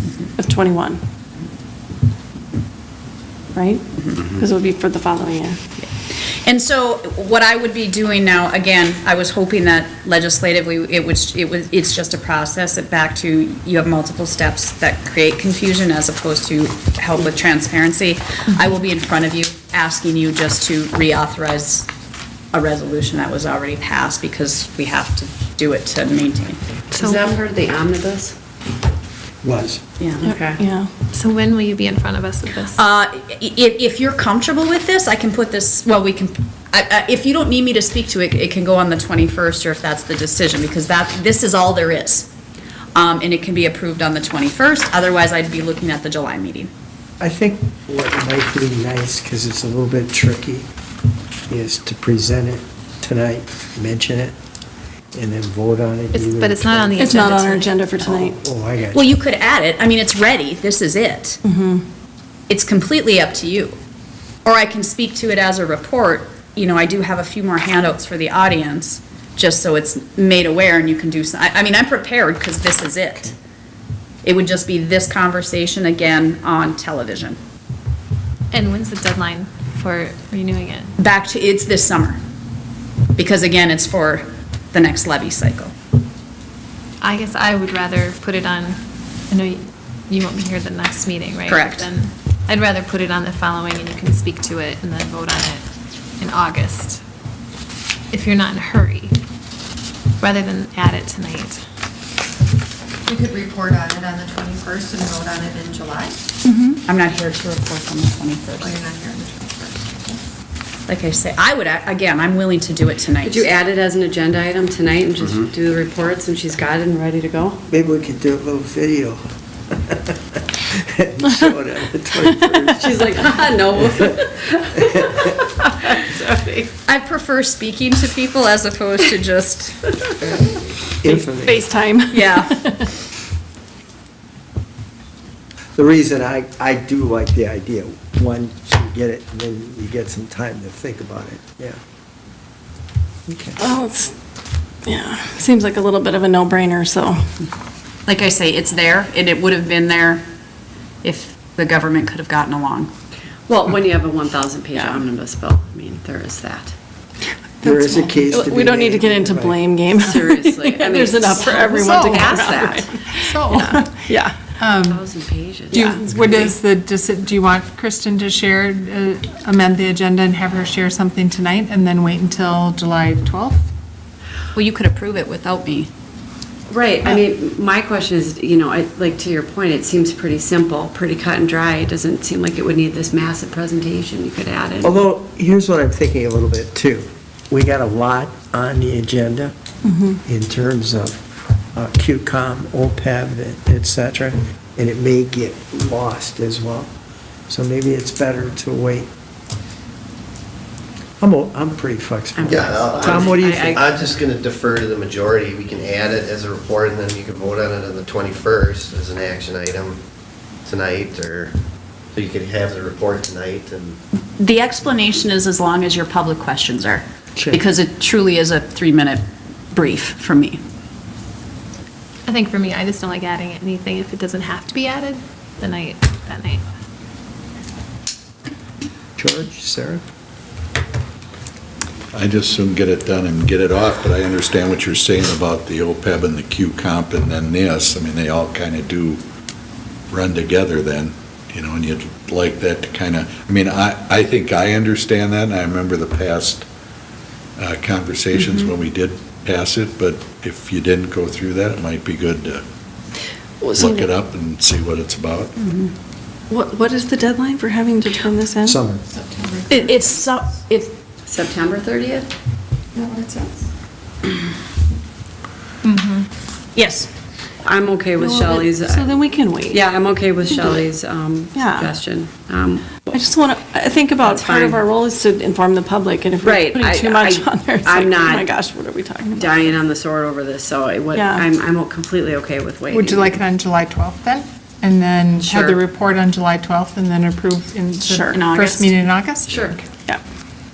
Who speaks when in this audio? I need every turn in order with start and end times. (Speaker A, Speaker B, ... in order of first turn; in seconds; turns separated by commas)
Speaker A: 0.4-1.0, Speaker A: 3.5-5.6, Speaker B: 6.4-21.9, Speaker B: 22.5-26.6, Speaker C: 26.9-28.3, Speaker D: 27.0-27.3, Speaker E: 29.4-29.8, Speaker B: 30.0-30.2, Speaker C: 30.2-30.6, Speaker A: 30.2-30.9, Speaker D: 31.0-32.8, Speaker B: 32.6-42.3, Speaker B: 42.9-46.7, Speaker E: 47.2-50.7, Speaker E: 51.5-54.3, Speaker E: 55.1-57.2, Speaker D: 56.1-57.8, Speaker A: 57.0-58.4, Speaker E: 58.0-59.1, Speaker B: 58.9-61.4, Speaker A: 61.4-61.8, Speaker B: 62.5-63.8, Speaker B: 64.4-73.3, Speaker B: 74.2-77.4, Speaker D: 78.5-80.9, Speaker B: 81.0-82.2, Speaker B: 83.2-85.7, Speaker D: 87.0-95.6, Speaker B: 91.5-91.9, Speaker D: 96.2-97.0, Speaker D: 98.1-99.2, Speaker D: 100.2-101.6, Speaker F: 103.0-106.2, Speaker A: 106.5-106.8, Speaker B: 106.8-108.8, Speaker F: 108.6-110.2, Speaker B: 110.9-113.5, Speaker C: 113.2-117.6, Speaker G: 115.2-115.5, Speaker E: 117.7-124.1, Speaker C: 122.8-125.4, Speaker E: 124.8-125.3, Speaker C: 126.0-126.3, Speaker B: 126.9-129.9, Speaker E: 131.0-131.7, Speaker A: 131.1-132.9, Speaker B: 132.1-132.9, Speaker E: 135.8-141.8, Speaker E: 143.3-143.6, Speaker A: 143.6-144.1, Speaker A: 144.8-147.2, Speaker B: 148.1-150.2, Speaker B: 151.0-152.9, Speaker C: 153.5-156.7, Speaker A: 154.7-155.0, Speaker H: 157.6-158.2, Speaker E: 157.6-159.6, Speaker A: 158.2-164.4, Speaker C: 160.0-162.9, Speaker H: 161.8-162.6, Speaker H: 163.3-165.0, Speaker C: 164.8-166.6, Speaker H: 165.7-173.7, Speaker B: 174.5-175.9, Speaker C: 176.7-185.0, Speaker E: 184.8-189.5, Speaker A: 189.8-190.2, Speaker E: 190.2-191.2, Speaker E: 191.7-196.9, Speaker E: 197.5-199.1, Speaker E: 201.2-203.8, Speaker C: 202.3-204.1, Speaker G: 202.4-210.0, Speaker G: 210.6-211.6, Speaker G: 212.1-214.0, Speaker B: 214.4-220.6, Speaker E: 217.3-217.6, Speaker D: 222.3-226.6, Speaker E: 229.2-230.0, Speaker I: 232.1-239.2, Speaker I: 240.1-246.7, Speaker I: 247.6-252.6, Speaker B: 248.3-248.7, Speaker A: 253.6-254.1, Speaker I: 253.7-255.5, Speaker B: 255.6-255.9, Speaker A: 256.5-258.8, Speaker E: 258.6-259.0, Speaker F: 259.2-259.7, Speaker B: 259.7-260.9, Speaker C: 261.3-262.3, Speaker F: 263.0-263.5, Speaker H: 265.8-266.2, Speaker B: 266.7-267.1, Speaker C: 267.6-273.1, Speaker A: 268.2-269.8, Speaker A: 271.5-271.9, Speaker A: 273.1-279.8, Speaker C: 274.2-274.8, Speaker C: 276.4-278.5, Speaker C: 279.3-283.4, Speaker A: 281.1-281.5, Speaker H: 282.9-290.0, Speaker B: 285.4-285.8, Speaker A: 288.0-288.4, Speaker B: 288.3-288.9, Speaker C: 289.4-289.8